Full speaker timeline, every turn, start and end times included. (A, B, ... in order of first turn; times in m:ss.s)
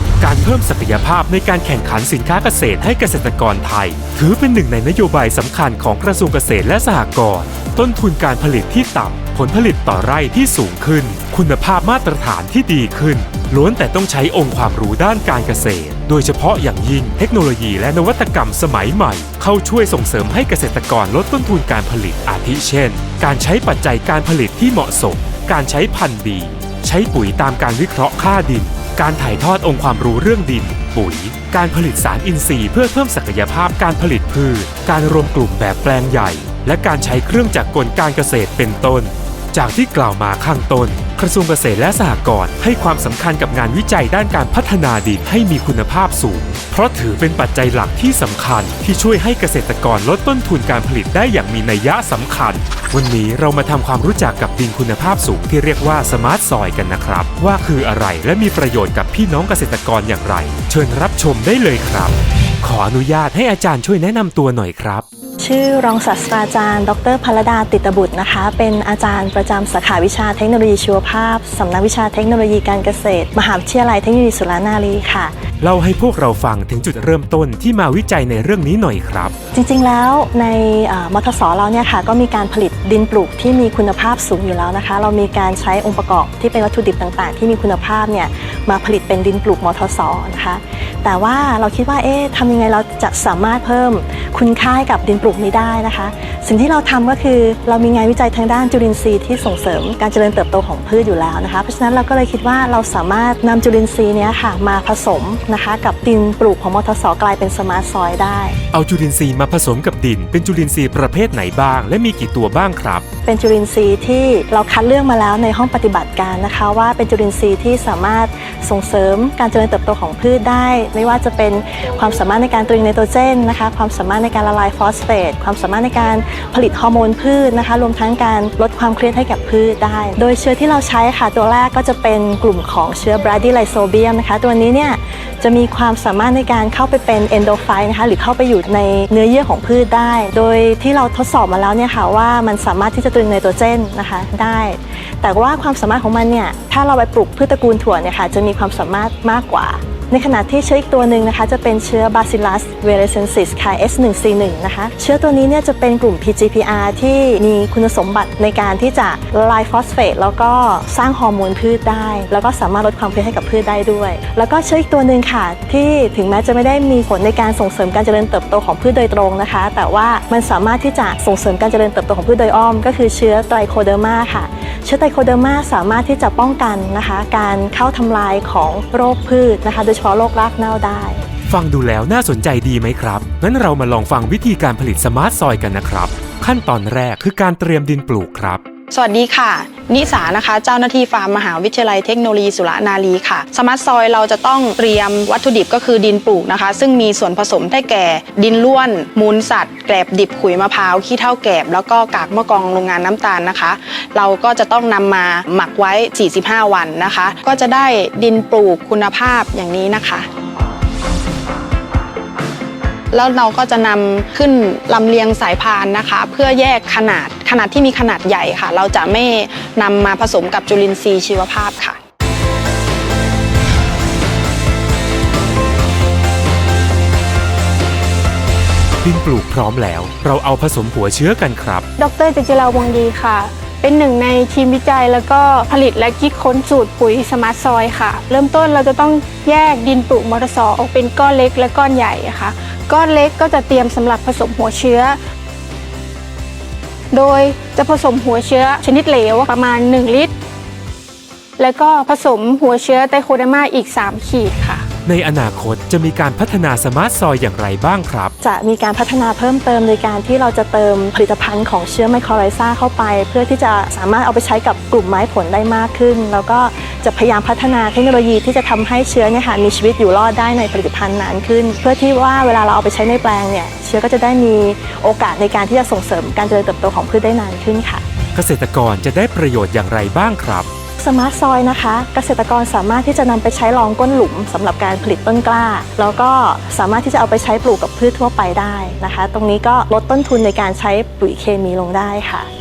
0:00.2-1:05.0 A
1:05.4-1:15.3 B
1:15.6-1:19.3 A
1:19.5-1:48.6 B
1:48.7-1:53.0 A
1:53.2-3:01.2 B
3:01.5-3:08.6 A
3:08.9-3:30.3 C
3:33.1-3:42.0 C
3:49.0-3:51.8 A
3:52.0-4:05.2 D
4:07.1-4:10.3 D
4:11.6-4:14.8 D
4:15.0-4:18.3 A
4:18.4-4:38.0 B
4:38.3-4:40.7 A
4:41.0-4:52.5 B